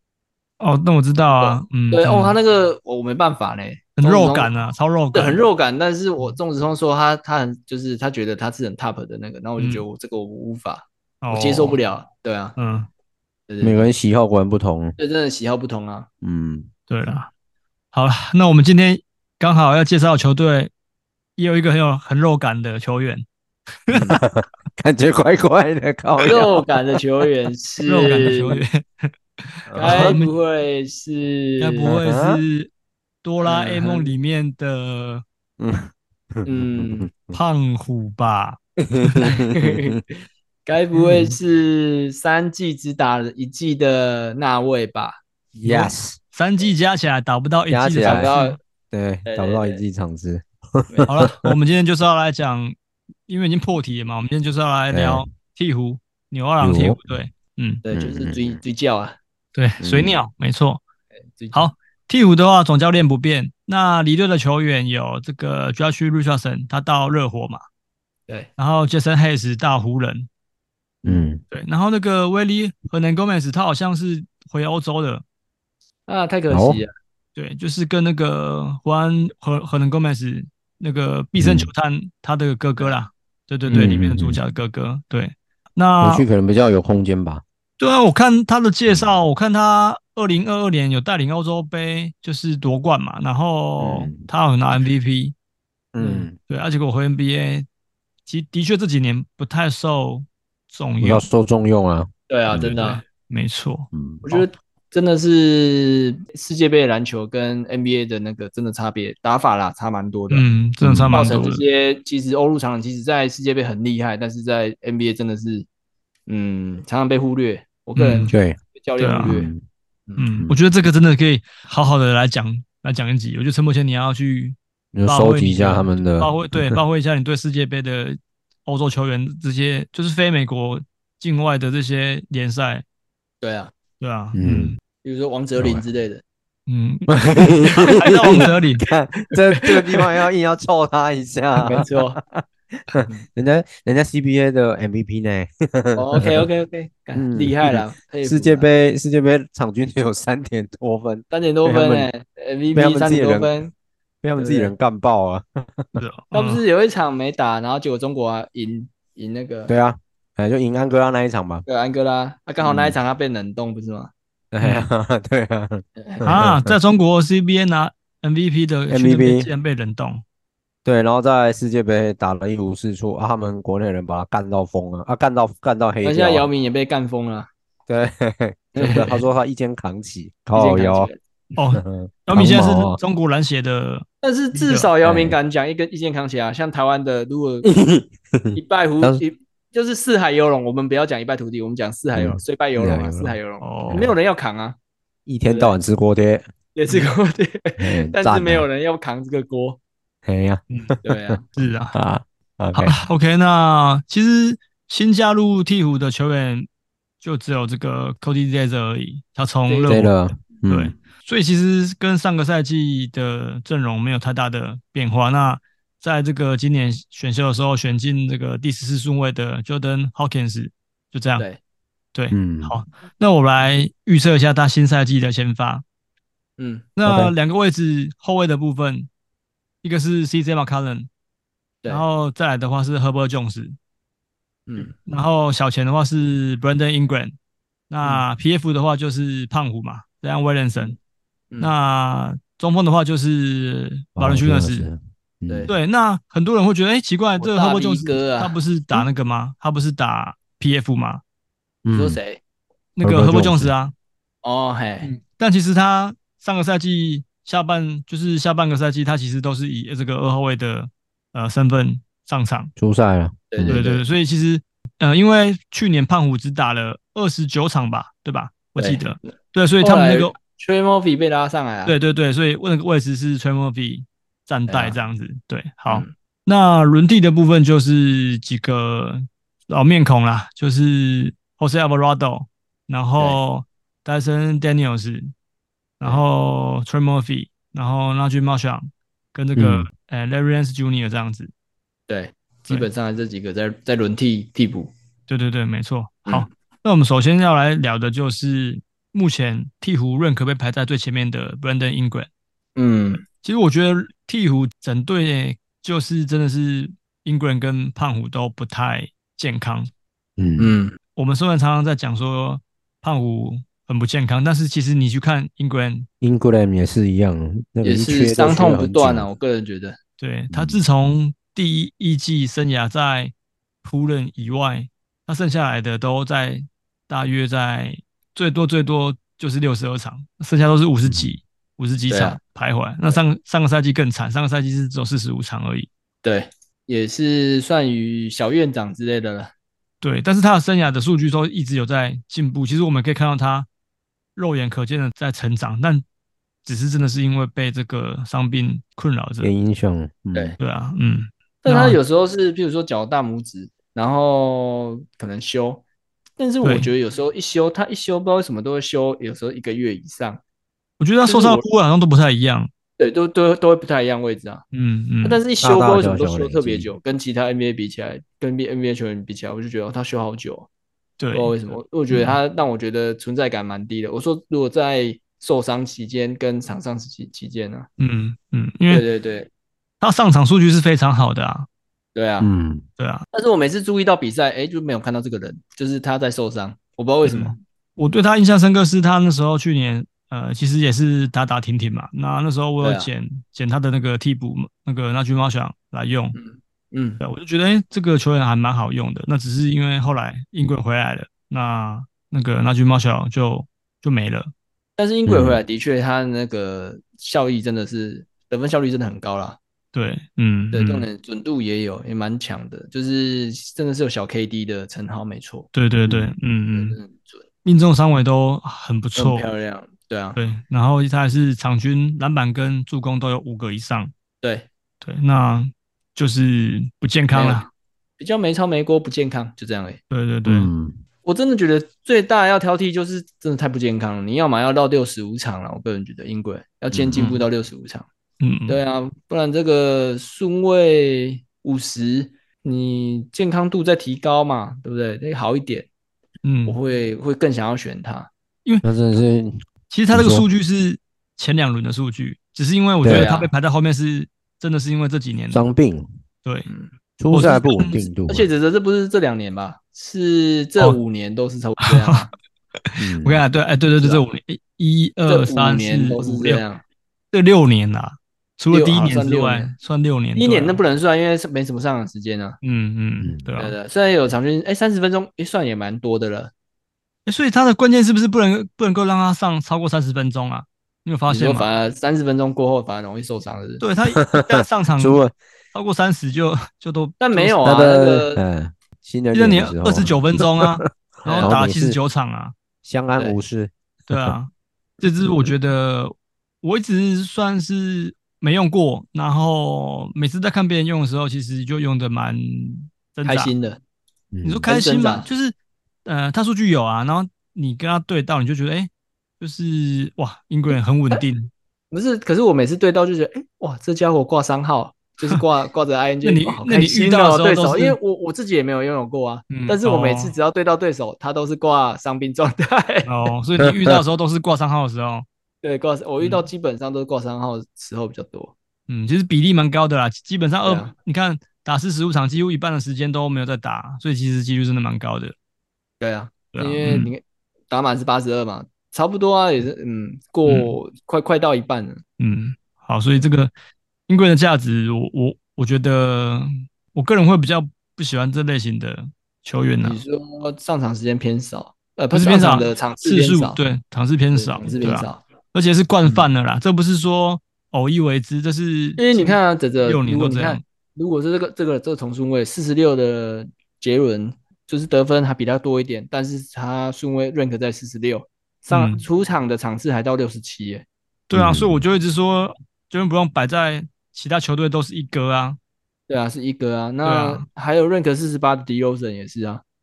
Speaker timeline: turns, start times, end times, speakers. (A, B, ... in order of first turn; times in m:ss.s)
0:00.6-0:02.4 A
0:01.3-0:04.5 B
0:04.0-0:05.4 A
0:05.1-0:12.5 B
0:09.6-0:09.8 A
0:11.2-0:11.8 A
0:12.6-0:12.9 A
0:13.5-0:13.8 B
0:13.6-0:15.0 C
0:15.0-0:16.1 B
0:16.2-0:16.7 C
0:16.9-0:17.3 A
0:17.9-0:20.7 A
0:21.4-0:23.2 A
0:23.9-0:24.2 A
0:23.9-0:26.7 C
0:26.2-0:28.6 B
0:27.8-0:30.3 A
0:29.7-0:30.2 C
0:29.7-0:31.9 B
0:31.6-0:32.7 A
0:31.8-0:32.4 C
0:33.2-0:35.2 A
0:33.4-0:34.1 B
0:35.6-0:37.4 C
0:36.4-0:37.1 B
0:37.3-0:39.3 A
0:38.8-0:40.0 C
0:39.2-0:40.0 B
0:40.6-0:45.2 B
0:45.5-0:46.2 C
0:45.6-0:48.6 A
0:47.7-0:48.3 C
0:48.0-0:48.6 B
0:48.9-0:51.6 C
0:49.3-0:49.8 B
0:51.1-0:52.7 A
0:53.3-0:57.8 A
0:54.9-0:55.2 C
0:56.6-0:57.0 C
0:57.8-0:59.2 B
0:57.9-0:58.6 C
0:59.6-1:00.8 A
0:59.8-1:00.2 C
1:01.4-1:01.7 B
1:01.5-1:07.6 A
1:08.6-1:10.3 A
1:11.0-1:11.4 C
1:11.5-1:15.2 A
1:16.1-1:16.9 B
1:16.5-1:16.8 C
1:17.4-1:26.2 A
1:21.4-1:21.7 C
1:23.7-1:24.0 B
1:23.7-1:24.4 C
1:26.0-1:27.4 C
1:27.8-1:35.3 A
1:33.8-1:34.2 C
1:35.9-1:36.3 C
1:36.0-1:37.6 A
1:38.3-1:41.2 A
1:41.0-1:42.7 C
1:42.3-1:43.0 B
1:42.6-1:44.4 A
1:43.9-1:44.2 C
1:44.2-1:50.4 B
1:50.3-1:51.6 A
1:50.8-1:51.3 C
1:51.1-1:55.6 B
1:56.3-1:59.5 B
1:58.0-1:58.3 A
1:58.3-1:58.6 C
1:59.0-1:59.4 A
1:59.2-1:59.6 C
2:00.2-2:12.8 A
2:04.9-2:06.8 C
2:13.4-2:13.7 B
2:14.0-2:14.8 A
2:14.3-2:14.7 C
2:15.0-2:16.2 B
2:15.6-2:15.8 C
2:16.7-2:18.8 A
2:17.1-2:26.5 C
2:17.9-2:18.5 B
2:19.5-2:20.0 B
2:21.6-2:22.2 B
2:26.0-2:28.6 B
2:27.2-2:32.1 C
2:31.3-2:33.7 B
2:32.7-2:33.5 C
2:34.2-2:36.0 C
2:34.4-2:34.7 B
2:36.0-2:36.6 A
2:36.3-2:39.7 B
2:39.7-2:41.6 C
2:41.7-2:44.1 B
2:42.6-2:43.0 C
2:44.5-2:46.8 C
2:46.0-2:46.5 B
2:46.2-2:50.2 A
2:48.9-2:49.5 C
2:50.8-2:56.5 C
2:56.0-2:57.5 B
2:57.9-3:01.1 C
2:58.8-2:59.2 B
3:00.5-3:01.2 B
3:01.5-3:04.9 A
3:01.7-3:03.0 C
3:04.2-3:07.7 B
3:05.0-3:05.4 C
3:07.6-3:09.2 C
3:08.5-3:14.8 B
3:12.1-3:13.4 C
3:13.6-3:14.1 A
3:15.2-3:16.4 C
3:15.5-3:15.7 B
3:16.7-3:19.8 B
3:17.8-3:18.6 C
3:20.2-3:21.4 C
3:20.7-3:21.0 A
3:21.0-3:21.4 B
3:21.5-3:21.9 A
3:21.9-3:22.9 C
3:22.7-3:26.7 A
3:27.2-3:30.1 A
3:29.8-3:30.9 C
3:30.7-3:41.4 A
3:42.1-3:45.8 A
3:42.3-3:42.8 C
3:46.6-3:46.9 B
3:47.0-3:49.1 A
3:47.0-3:47.3 C
3:49.8-3:51.1 A
3:51.8-3:53.7 A
3:54.7-3:54.9 B
3:54.9-3:57.3 A
3:57.9-4:00.9 A
4:01.6-4:04.8 A
4:04.2-4:05.7 C
4:05.5-4:05.7 B
4:05.7-4:11.2 A
4:07.4-4:09.1 B
4:11.8-4:12.2 C
4:11.9-4:12.4 B
4:13.0-4:13.9 A
4:13.0-4:13.7 C
4:14.4-4:15.1 B
4:15.0-4:22.7 A
4:22.8-4:23.8 C
4:23.5-4:24.0 B
4:23.6-4:30.3 A
4:29.8-4:31.9 B
4:31.8-4:45.3 A
4:34.7-4:35.0 B
4:46.0-4:51.5 A
4:49.6-4:49.9 C
4:52.1-4:54.9 B
4:55.3-5:02.3 A
5:02.8-5:03.2 B
5:03.4-5:09.9 A
5:10.4-5:10.7 C
5:10.6-5:11.0 B
5:11.2-5:16.1 A
5:16.2-5:19.3 C
5:17.8-5:20.0 B
5:20.2-5:35.9 A
5:20.5-5:20.8 C
5:32.1-5:32.4 B
5:36.2-5:39.5 B
5:40.0-5:43.7 A
5:44.4-5:46.0 A
5:46.6-5:49.5 A
5:49.4-5:50.6 C
5:50.6-5:52.0 A
5:51.6-5:55.8 B
5:56.4-6:00.4 B
5:56.6-5:56.9 A
6:01.0-6:02.7 A
6:01.2-6:01.6 B
6:03.0-6:04.6 B
6:04.7-6:05.4 A
6:05.2-6:10.7 B
6:05.6-6:06.9 C
6:11.2-6:11.5 A
6:11.3-6:17.9 B
6:12.1-6:12.4 A
6:18.0-6:19.0 A
6:18.9-6:19.5 B
6:20.0-6:21.7 A
6:22.1-6:22.5 B
6:22.4-6:22.8 C
6:23.0-6:23.2 A
6:23.3-6:27.6 B
6:27.2-6:36.3 A
6:32.8-6:33.1 B
6:36.3-6:37.2 B
6:37.2-6:44.5 A
6:45.0-6:49.6 B
6:45.3-6:45.6 C
6:49.9-6:51.1 A
6:50.7-6:55.7 B
6:55.7-6:57.0 A
6:56.7-6:57.4 B
6:57.6-6:59.5 A
6:59.2-7:00.4 B
7:00.4-7:04.1 A
7:04.4-7:04.7 B
7:05.0-7:07.7 A
7:07.3-7:07.7 B
7:08.2-7:10.0 B
7:10.1-7:10.7 A
7:10.4-7:11.0 C
7:11.2-7:18.0 B
7:16.9-7:17.2 C
7:17.2-7:17.4 A
7:18.4-7:18.8 A
7:18.7-7:25.9 B
7:26.4-7:26.8 A
7:26.7-7:28.3 B
7:28.8-7:30.4 C
7:29.9-7:35.6 A
7:33.0-7:33.3 C
7:33.0-7:33.5 B
7:35.5-7:36.1 C
7:37.2-7:38.5 C
7:37.3-7:38.0 A
7:38.3-7:42.3 B
7:41.8-7:42.3 A
7:42.8-7:46.6 A
7:43.0-7:43.4 C
7:45.3-7:46.8 B
7:47.3-7:50.8 A
7:48.7-7:49.7 B
7:50.4-7:52.6 B
7:52.6-7:53.7 A
7:53.6-7:56.5 B
7:57.2-8:01.7 A
8:01.3-8:03.8 B
8:03.8-8:05.2 A
8:04.2-8:05.3 C
8:05.7-8:07.7 A
8:07.2-8:08.4 B
8:07.6-8:12.0 C
8:09.3-8:12.5 A
8:11.2-8:11.6 B
8:12.8-8:14.4 C
8:14.1-8:23.5 A
8:23.2-8:23.8 B
8:24.3-8:24.6 C
8:24.4-8:25.5 A
8:24.6-8:25.2 B
8:26.0-8:31.5 A
8:31.9-8:43.3 B
8:36.2-8:38.0 A
8:39.5-8:40.3 A
8:43.0-8:45.2 A
8:45.6-8:48.5 B
8:46.2-8:46.4 A
8:48.9-8:55.3 A
8:50.6-8:50.9 B
8:56.0-9:02.0 B
8:56.5-8:57.1 A
9:00.4-9:00.8 A
9:02.2-9:03.5 A
9:04.1-9:10.0 A
9:09.8-9:13.6 B
9:12.1-9:20.6 A
9:14.3-9:15.2 B
9:19.0-9:30.8 B
9:28.7-9:29.0 A
9:31.3-9:35.6 A
9:31.3-9:31.8 C
9:36.1-9:39.6 B
9:37.0-9:37.4 A